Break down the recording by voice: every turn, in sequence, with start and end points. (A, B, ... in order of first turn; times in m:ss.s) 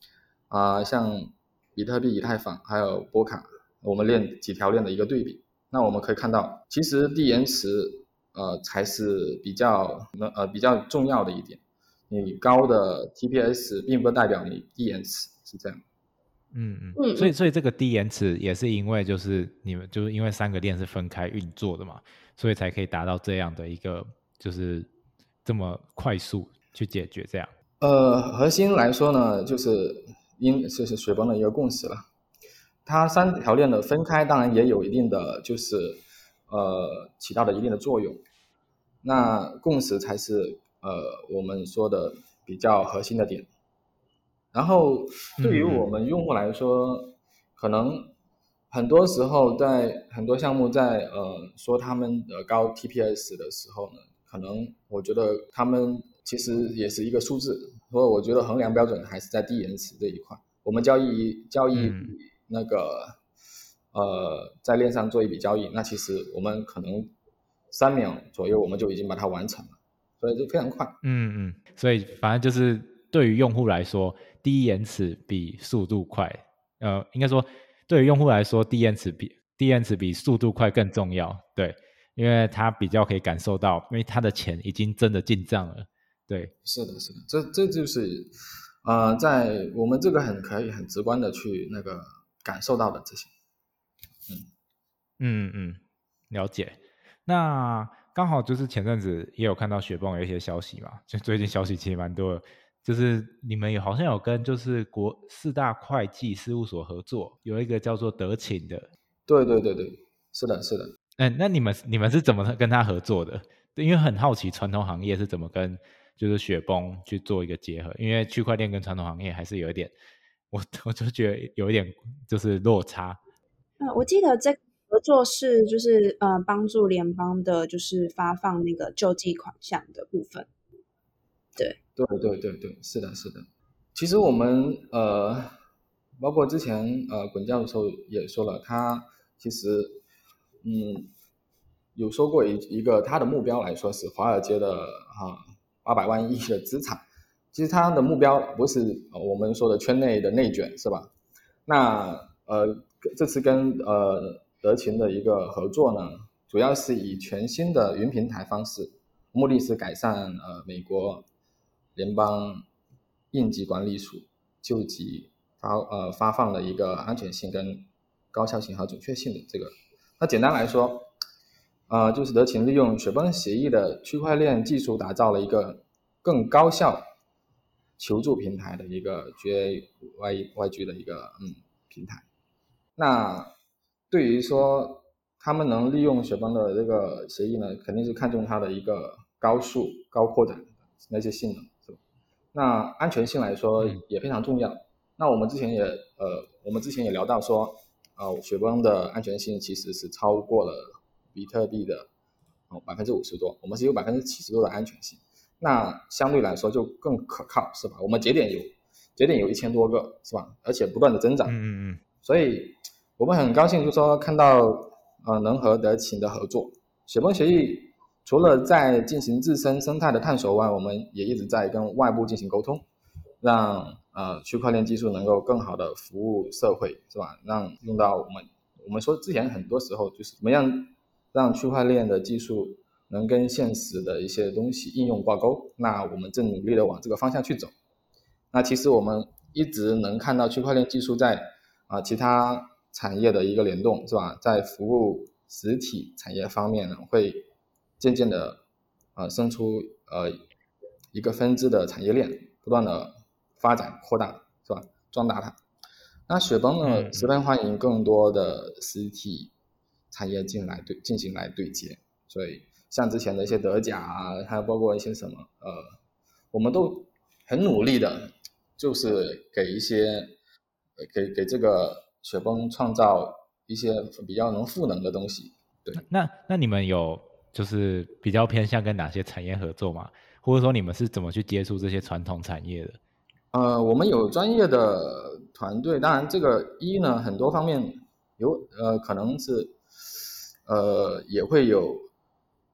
0:00.5-0:15.8 A
0:16.5-0:24.9 B
0:17.0-0:17.3 C
0:25.4-0:27.5 B
0:27.8-0:32.0 A
0:32.8-0:38.2 A
0:39.0-0:43.5 A
0:44.5-0:48.1 A
0:45.4-0:45.9 B
0:48.7-1:03.2 A
1:01.7-1:02.1 B
1:03.9-1:07.1 A
1:07.7-1:11.0 A
1:11.0-1:26.5 B
1:26.6-1:28.3 A
1:28.8-1:33.3 A
1:35.2-1:35.8 B
1:36.3-1:48.9 B
1:49.3-1:51.0 A
1:51.2-1:59.9 B
2:00.5-2:03.2 B
2:03.8-2:10.5 C
2:12.0-2:15.6 A
2:16.2-2:20.0 A
2:20.6-2:21.1 A
2:22.0-2:31.1 A
2:31.7-2:41.2 A
2:42.0-2:42.6 A
2:43.3-2:51.1 A
2:51.9-2:57.1 A
2:58.0-3:02.2 A
3:03.0-3:03.5 A
3:04.1-3:12.0 A
3:12.5-3:22.1 A
3:22.7-3:31.6 A
3:31.5-3:32.0 B
3:32.2-3:42.8 A
3:43.4-3:57.7 A
3:58.5-4:07.5 A
4:08.0-4:08.6 A
4:09.2-4:10.4 A
4:11.1-4:15.6 A
4:16.3-4:19.5 A
4:16.8-4:17.3 B
4:20.1-4:25.9 A
4:26.5-4:30.3 A
4:31.0-4:36.0 A
4:36.0-4:43.0 B
4:43.5-4:49.8 A
4:50.7-4:52.1 A